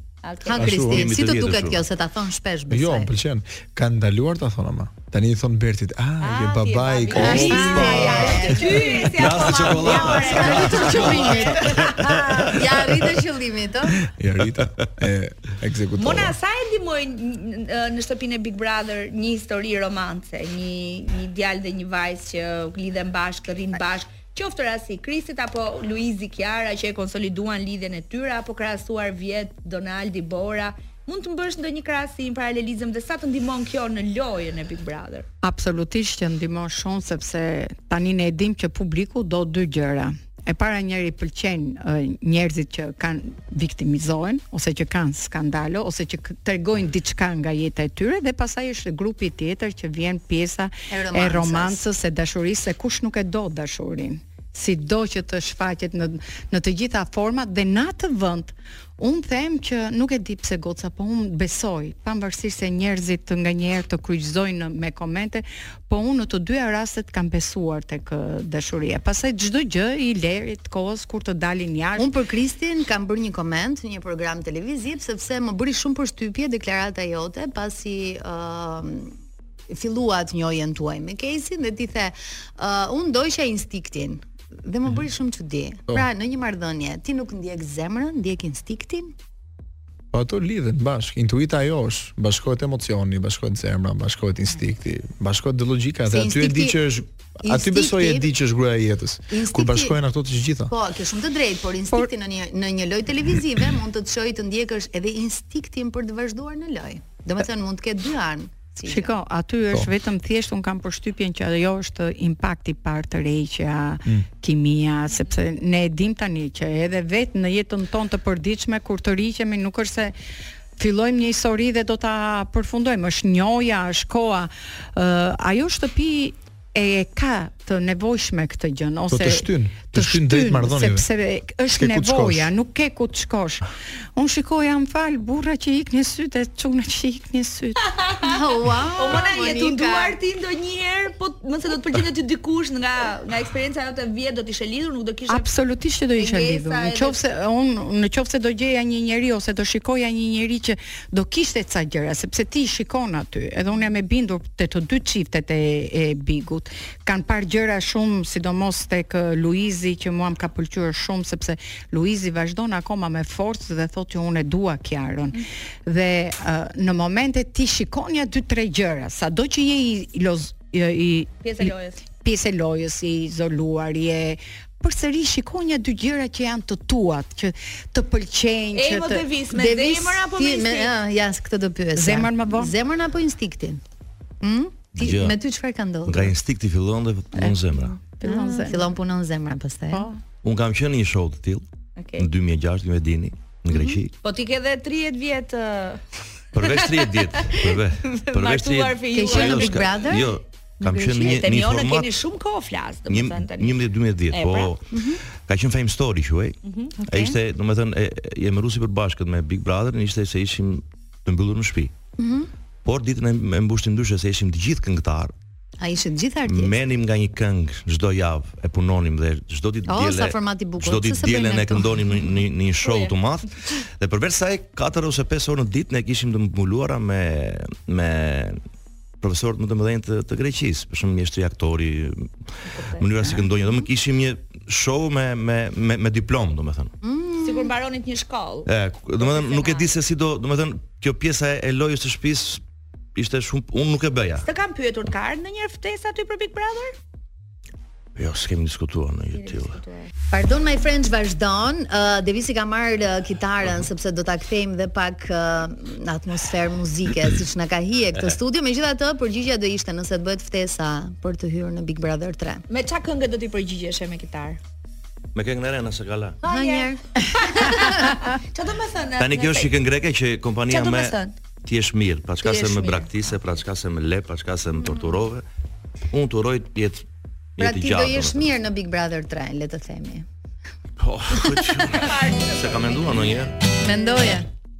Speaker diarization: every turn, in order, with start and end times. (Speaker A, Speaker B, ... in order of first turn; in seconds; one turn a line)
Speaker A: 0.2-0.7
Speaker B: 0.4-3.1
Speaker C: 0.6-1.1
Speaker D: 0.6-1.8
Speaker C: 2.7-8.6
Speaker A: 6.2-11.9
Speaker B: 7.1-9.1
Speaker E: 7.4-8.6
Speaker D: 9.1-12.6
Speaker B: 10.1-14.0
Speaker E: 10.9-11.9
Speaker C: 14.1-16.4
Speaker A: 16.0-35.2
Speaker E: 35.4-72.1
Speaker B: 50.9-51.8
Speaker B: 72.0-79.2
Speaker B: 79.7-89.1
Speaker C: 90.1-100.7
Speaker B: 96.1-96.8
Speaker B: 97.4-98.3
Speaker B: 99.3-100.0
Speaker B: 100.7-109.1
Speaker E: 108.9-120.1
Speaker E: 120.8-137.8
Speaker C: 129.1-131.1
Speaker C: 131.7-132.5
Speaker A: 137.9-138.4
Speaker B: 138.2-140.2
Speaker A: 138.9-145.5
Speaker E: 145.3-179.6
Speaker A: 146.2-147.2
Speaker A: 171.4-172.0
Speaker A: 178.7-180.9
Speaker B: 179.6-183.8
Speaker E: 181.9-182.7
Speaker B: 184.4-186.3
Speaker D: 184.9-185.3
Speaker D: 186.1-188.0
Speaker E: 187.4-188.9
Speaker B: 188.2-190.1
Speaker E: 189.9-190.2
Speaker D: 190.4-191.6
Speaker A: 192.0-192.3
Speaker D: 192.2-194.1
Speaker B: 193.7-194.0
Speaker A: 194.2-199.9
Speaker D: 196.5-202.2
Speaker B: 199.1-200.4
Speaker A: 200.8-204.7
Speaker D: 203.1-211.9
Speaker B: 204.9-205.2
Speaker A: 206.6-207.0
Speaker E: 207.1-207.3
Speaker B: 212.2-212.5
Speaker D: 212.8-215.3
Speaker B: 215.8-216.8
Speaker D: 216.4-228.6
Speaker B: 219.9-222.4
Speaker A: 222.8-223.1
Speaker D: 229.2-232.3
Speaker A: 232.7-233.0
Speaker D: 232.9-236.9
Speaker B: 237.0-237.7
Speaker A: 237.4-239.9
Speaker D: 238.7-242.6
Speaker D: 243.1-244.5
Speaker A: 244.4-246.9
Speaker D: 248.2-249.8
Speaker A: 249.3-250.1
Speaker B: 250.3-262.6
Speaker A: 262.7-264.6
Speaker D: 265.3-266.4
Speaker A: 266.4-269.7
Speaker B: 266.4-268.1
Speaker D: 269.2-275.4
Speaker A: 270.7-271.3
Speaker A: 272.4-273.1
Speaker D: 276.1-277.1
Speaker D: 277.6-278.6
Speaker B: 277.6-280.2
Speaker D: 281.0-283.6
Speaker A: 281.9-283.3
Speaker B: 283.8-284.5